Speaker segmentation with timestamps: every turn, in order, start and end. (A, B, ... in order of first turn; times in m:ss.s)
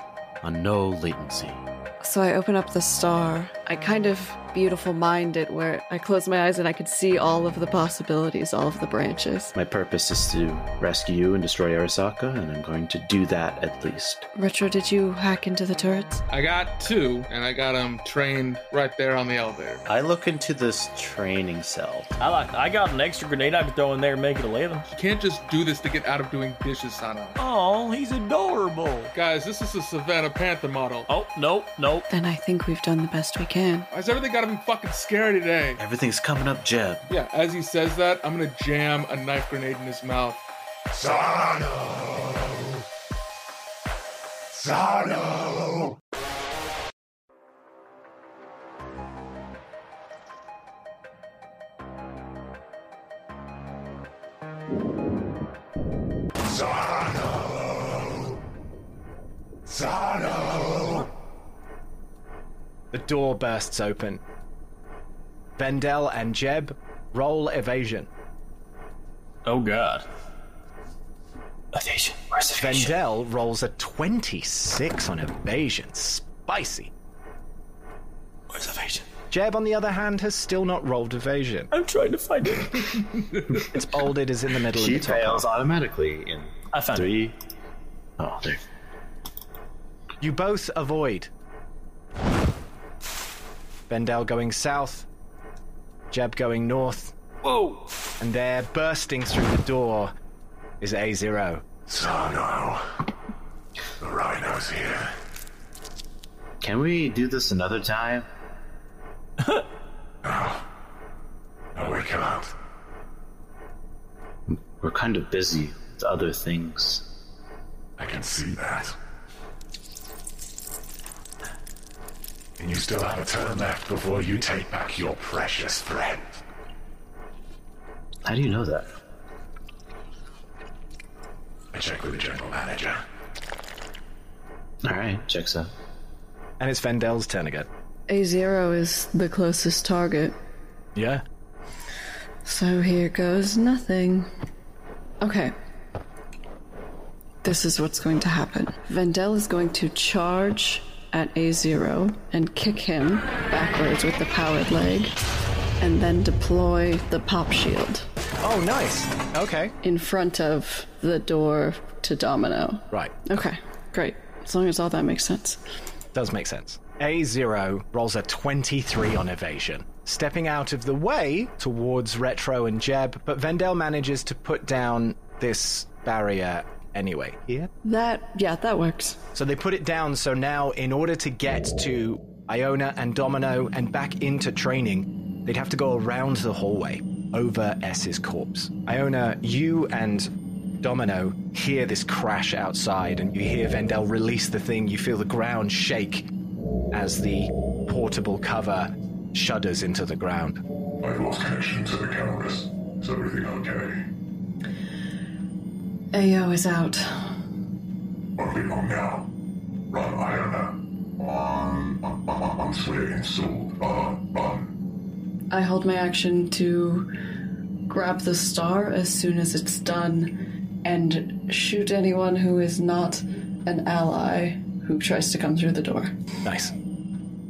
0:00.4-0:01.6 A
0:02.0-0:09.5 B
0:09.5-0:14.2 A
0:14.4-0:16.2 B
0:16.3-0:19.8 C
0:19.8-0:22.2 A
0:22.2-0:24.9 D
0:24.9-0:27.4 C
0:27.4-0:29.1 D
0:29.1-0:31.1 C
0:31.1-0:32.0 D
0:32.1-0:33.9 B
0:33.9-0:35.8 C
0:35.8-0:37.0 A
0:37.1-0:40.4 C
0:40.9-0:42.8 E
0:44.5-0:45.9 E
0:56.4-0:58.3 E
0:59.7-1:01.1 E
1:02.9-1:04.2 F
1:05.6-1:08.1 F
1:09.4-1:10.0 D
1:11.7-1:13.0 D
1:12.6-1:16.9 F
1:18.5-1:19.1 D
1:19.3-1:21.7 F
1:21.7-1:23.0 D
1:23.7-1:25.4 F
1:24.8-1:27.4 A
1:26.7-1:27.1 D
1:28.2-1:28.6 A
1:30.2-1:31.3 F
1:33.9-1:35.1 F
1:36.1-1:37.2 F
1:37.4-1:37.9 D
1:38.2-1:40.1 F
1:40.8-1:41.8 F
1:41.9-1:42.9 E
1:44.0-1:45.1 E
1:46.6-1:48.3 A
1:50.2-1:50.6 E
1:51.7-1:52.5 E
1:54.5-1:57.0 A
1:58.0-1:59.0 E
2:02.6-2:06.4 E
2:08.2-2:08.9 A
2:11.7-2:13.0 E
2:14.8-2:15.7 A
2:16.6-2:17.7 F
2:18.1-2:20.4 B
2:20.9-2:21.2 F
2:22.4-2:24.3 B
2:25.2-2:25.5 B
2:27.4-2:35.1 B
2:35.8-2:38.0 B
2:38.4-2:39.7 F
2:39.8-2:45.6 B
2:46.1-2:57.7 F
2:57.8-2:59.2 B
2:59.3-3:10.3 F
3:10.8-3:16.3 F
3:16.9-3:20.6 F
3:21.0-3:24.1 E
3:26.1-3:27.2 B
3:28.4-3:29.3 E
3:29.9-3:34.7 E
3:35.5-3:37.1 B
3:37.9-3:46.1 B
3:46.4-3:46.7 F